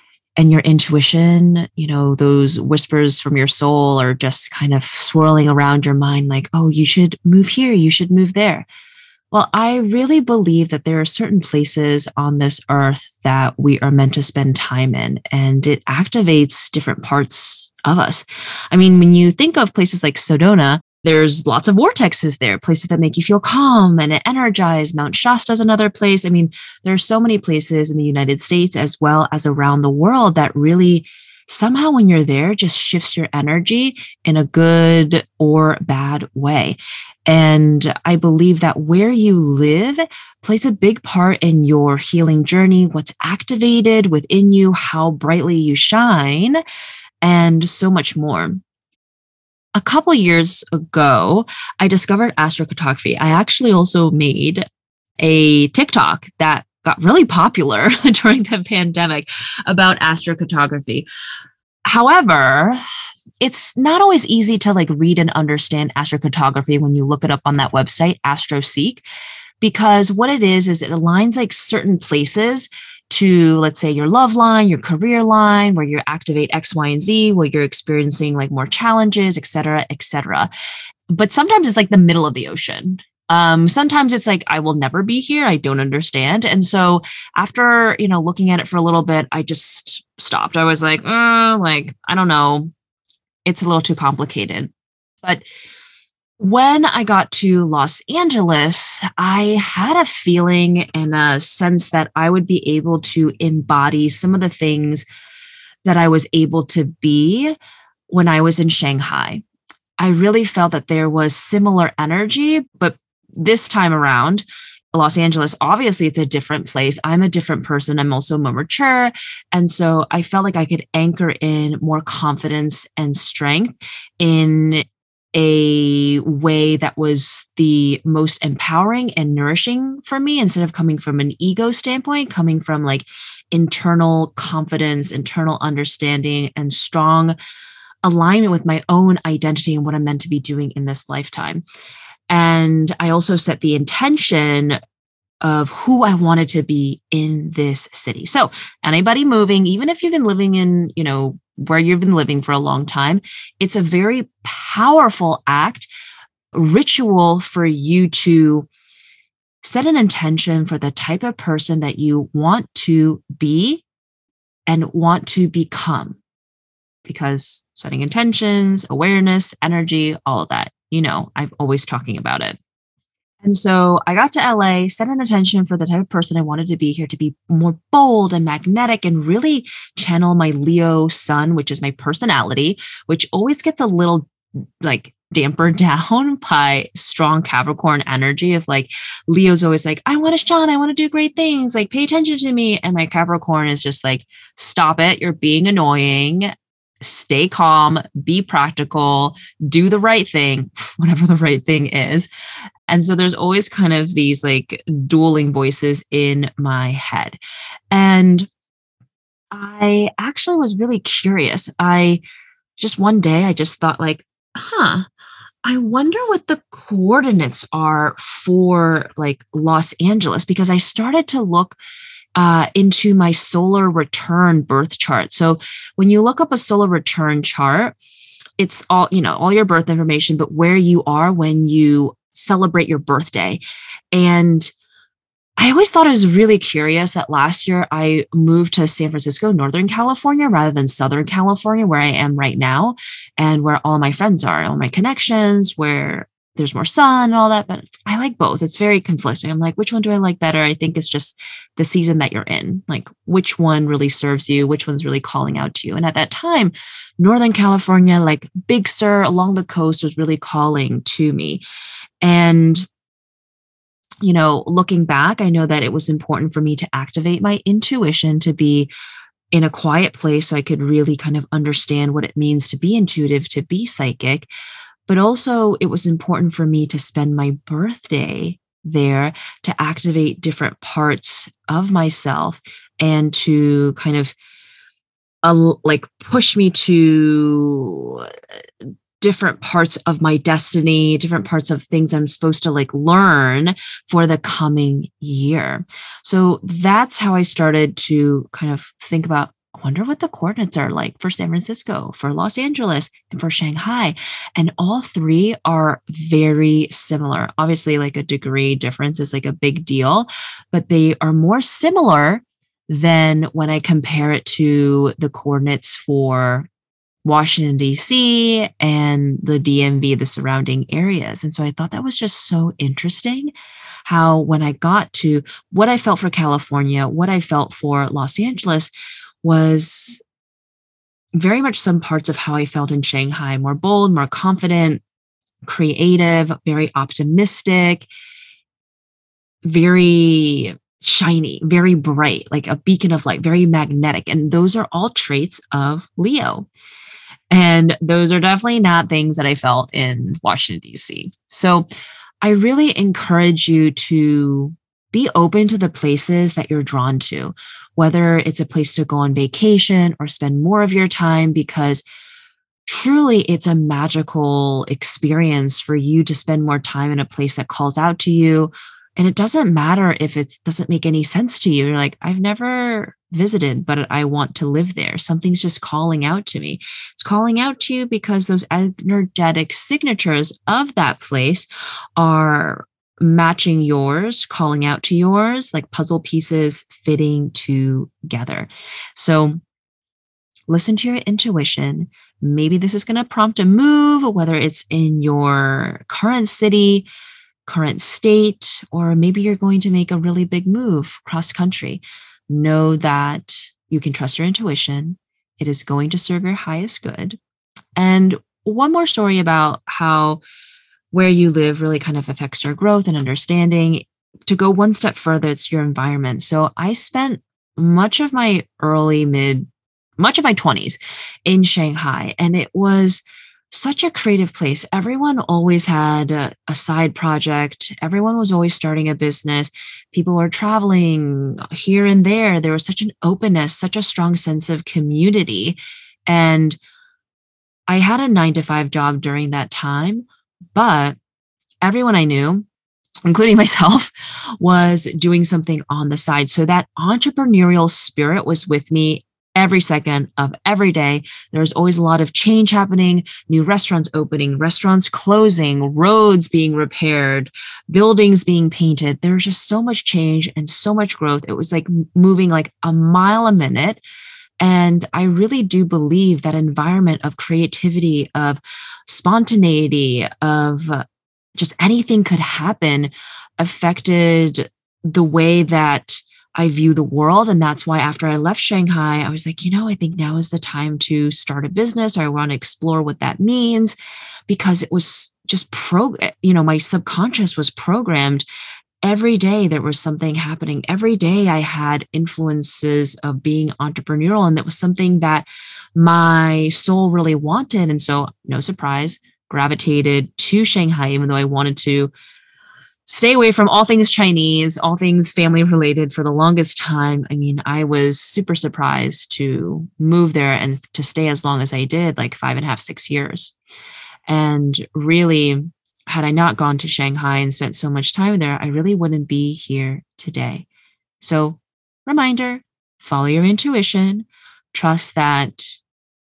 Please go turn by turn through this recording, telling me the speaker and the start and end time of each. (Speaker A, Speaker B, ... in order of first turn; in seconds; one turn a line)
Speaker A: 0.4-8.7
Speaker A: 9.3-46.6
Speaker A: 47.2-48.6
Speaker A: 49.7-54.6
Speaker A: 55.2-61.1
Speaker A: 61.9-62.8
Speaker A: 63.4-69.0
Speaker A: 69.6-80.5
Speaker A: 81.1-92.7
Speaker A: 93.5-94.7
Speaker A: 96.4-105.0
Speaker A: 105.8-107.5
Speaker A: 108.1-109.4
Speaker A: 110.0-137.3
Speaker A: 138.0-141.6
Speaker A: 142.3-144.8
Speaker A: 145.4-155.9
Speaker A: 156.5-158.7
Speaker A: 159.6-163.8
Speaker A: 164.7-166.2
Speaker A: 167.0-172.6
Speaker A: 173.4-184.3
Speaker A: 184.8-196.5
Speaker A: 197.0-202.3
Speaker A: 202.9-207.4
Speaker A: 207.9-208.5
Speaker A: 209.5-212.2
Speaker A: 212.8-215.1
Speaker A: 215.6-221.8
Speaker A: 222.3-227.9
Speaker A: 228.6-233.6
Speaker A: 234.1-234.7
Speaker A: 235.6-261.6
Speaker A: 262.2-262.9
Speaker A: 264.2-268.9
Speaker A: 269.5-274.5
Speaker A: 275.1-284.3
Speaker A: 285.4-288.3
Speaker A: 289.2-316.7
Speaker A: 317.2-323.5
Speaker A: 324.0-328.9
Speaker A: 329.4-330.2
Speaker A: 331.4-335.0
Speaker A: 335.6-338.1
Speaker A: 339.6-346.7
Speaker A: 347.5-351.9
Speaker A: 352.4-362.0
Speaker A: 362.9-389.6
Speaker A: 390.7-397.1
Speaker A: 397.6-407.4
Speaker A: 407.9-410.4
Speaker A: 411.1-419.7
Speaker A: 420.2-436.8
Speaker A: 437.9-441.2
Speaker A: 441.8-442.6
Speaker A: 443.2-464.0
Speaker A: 464.6-471.0
Speaker A: 471.6-483.9
Speaker A: 484.5-488.4
Speaker A: 489.0-502.1
Speaker A: 503.1-513.5
Speaker A: 514.3-520.6
Speaker A: 521.2-525.8